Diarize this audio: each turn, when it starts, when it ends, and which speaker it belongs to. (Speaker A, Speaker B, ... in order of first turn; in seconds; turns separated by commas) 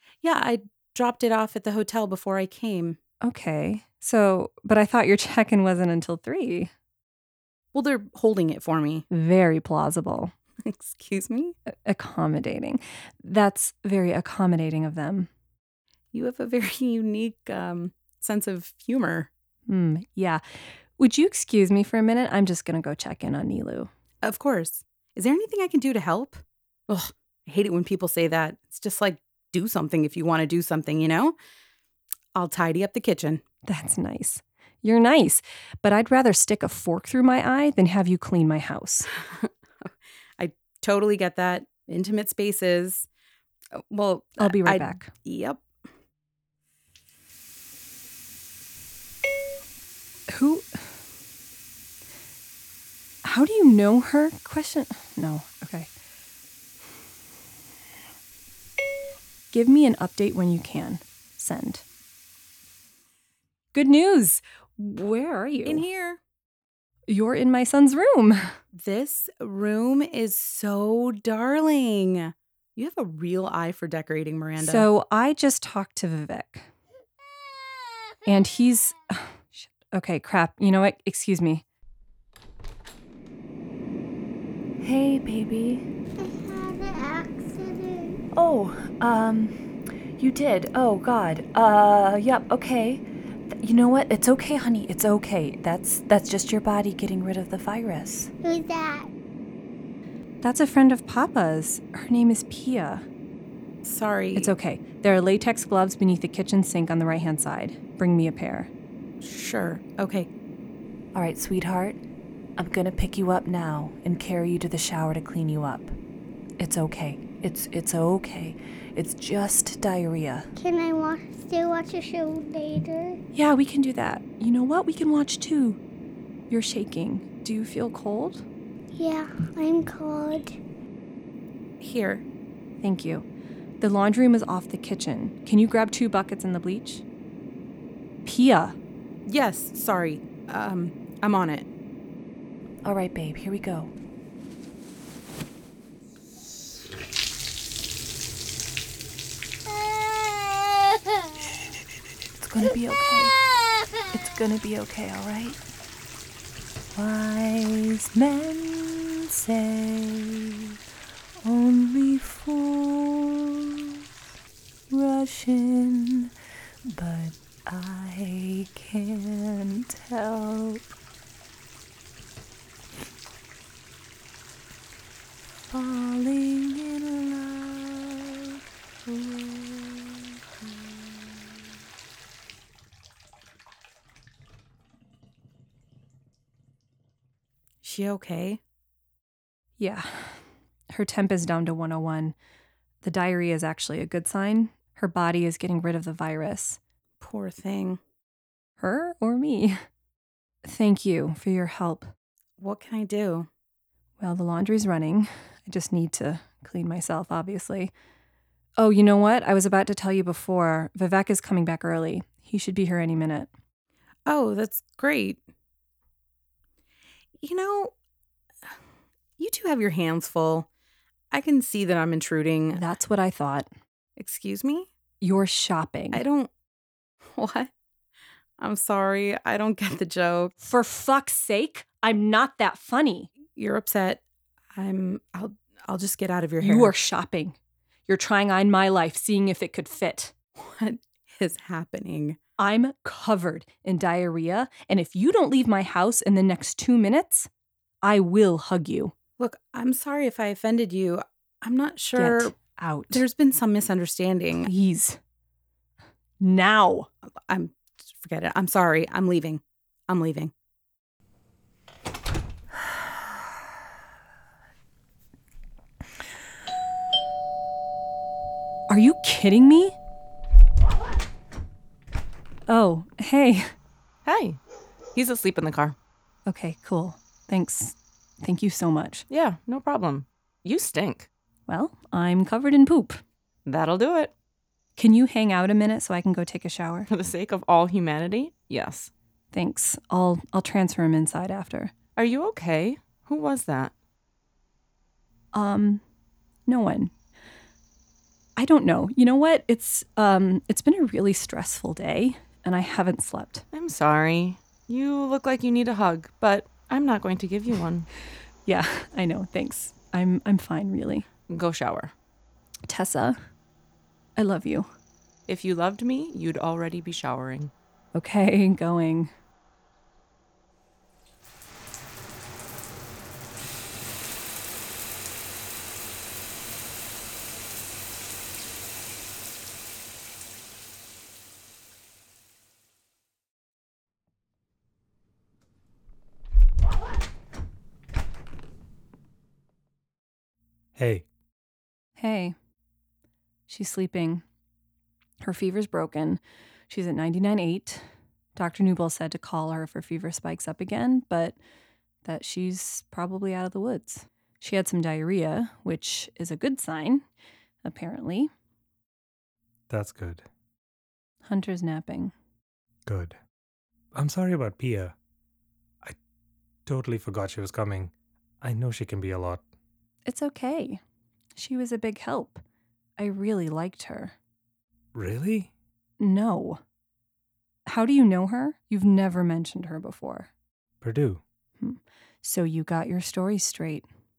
Speaker A: 0.2-3.0, Speaker B: 3.2-6.7, Speaker A: 7.7-9.1, Speaker B: 9.1-10.3, Speaker A: 10.6-11.6, Speaker B: 11.8-15.3, Speaker A: 16.1-19.3, Speaker B: 19.7-20.4, Speaker B: 21.0-23.9, Speaker A: 24.2-31.4, Speaker A: 32.3-33.4, Speaker B: 33.7-39.1, Speaker A: 39.3-43.1, Speaker A: 43.8-45.6, Speaker B: 44.4-45.1, Speaker B: 50.3-50.8, Speaker B: 53.2-55.9, Speaker B: 59.5-61.8, Speaker B: 63.7-65.9, Speaker A: 65.7-66.2, Speaker B: 67.1-68.5, Speaker A: 68.7-74.9, Speaker B: 74.6-76.7, Speaker B: 78.3-81.6, Speaker C: 84.8-85.8, Speaker D: 86.2-88.2, Speaker C: 88.3-89.6, Speaker C: 90.2-98.3, Speaker D: 98.4-99.1, Speaker B: 100.4-103.0, Speaker A: 103.8-104.5, Speaker B: 104.4-108.7, Speaker A: 109.2-110.3, Speaker C: 111.1-112.0, Speaker C: 112.6-115.9, Speaker C: 116.6-120.5, Speaker D: 120.6-123.2, Speaker B: 123.3-125.8, Speaker B: 126.5-128.4, Speaker D: 128.9-130.6, Speaker A: 131.8-132.2, Speaker B: 132.8-133.2, Speaker B: 133.8-137.0, Speaker B: 138.2-138.8, Speaker A: 139.3-141.7, Speaker C: 142.8-143.9, Speaker C: 152.4-153.4, Speaker C: 154.1-155.6, Speaker C: 156.9-160.7, Speaker C: 161.4-163.9, Speaker C: 164.9-166.3, Speaker C: 166.9-170.8, Speaker C: 175.7-180.7, Speaker A: 187.8-188.6, Speaker B: 189.8-192.3, Speaker B: 193.0-196.8, Speaker A: 197.2-198.0, Speaker B: 198.8-199.8, Speaker B: 200.7-202.1, Speaker A: 202.6-203.5, Speaker B: 204.2-207.9, Speaker B: 208.8-213.5, Speaker A: 214.3-215.4, Speaker A: 217.4-217.9, Speaker A: 219.4-220.7, Speaker A: 221.3-222.8, Speaker B: 222.8-223.7, Speaker A: 224.2-224.9, Speaker B: 225.2-226.2, Speaker A: 226.1-226.5, Speaker A: 227.3-227.7, Speaker A: 228.6-230.6, Speaker B: 230.6-233.3, Speaker A: 233.5-234.2, Speaker A: 234.8-237.0, Speaker B: 236.6-237.6, Speaker B: 238.1-240.3, Speaker A: 240.6-242.4, Speaker B: 242.6-247.5, Speaker B: 248.0-249.1, Speaker A: 249.4-252.6, Speaker B: 252.2-253.2, Speaker A: 253.1-254.7, Speaker B: 254.7-255.2, Speaker B: 256.4-257.1, Speaker A: 257.5-260.5, Speaker B: 268.9-270.0, Speaker B: 272.7-273.7, Speaker E: 274.2-274.6, Speaker E: 275.1-276.0, Speaker B: 276.5-279.2, Speaker E: 279.3-281.3, Speaker B: 281.7-283.2, Speaker E: 283.7-284.3, Speaker B: 285.0-287.1, Speaker E: 287.1-289.1, Speaker B: 289.5-291.9, Speaker E: 292.2-293.9, Speaker B: 295.5-296.0, Speaker B: 296.7-297.1, Speaker B: 298.6-303.6, Speaker E: 303.7-308.1, Speaker B: 308.7-311.3, Speaker E: 311.5-312.1, Speaker B: 312.9-313.4, Speaker B: 314.4-314.9, Speaker E: 315.5-317.7, Speaker B: 318.1-319.3, Speaker F: 341.0-341.3, Speaker B: 342.2-342.6, Speaker B: 343.7-344.4, Speaker B: 345.4-348.0, Speaker B: 348.6-351.6, Speaker B: 352.2-357.2, Speaker B: 357.8-358.5, Speaker F: 359.9-360.5, Speaker B: 361.4-362.3, Speaker F: 363.1-363.4, Speaker F: 364.1-365.1, Speaker F: 366.9-369.6, Speaker B: 370.3-371.0, Speaker B: 371.6-372.6, Speaker B: 373.2-374.4, Speaker F: 375.1-375.7, Speaker B: 376.2-376.8, Speaker B: 377.9-380.5, Speaker F: 381.0-381.4, Speaker B: 381.8-384.1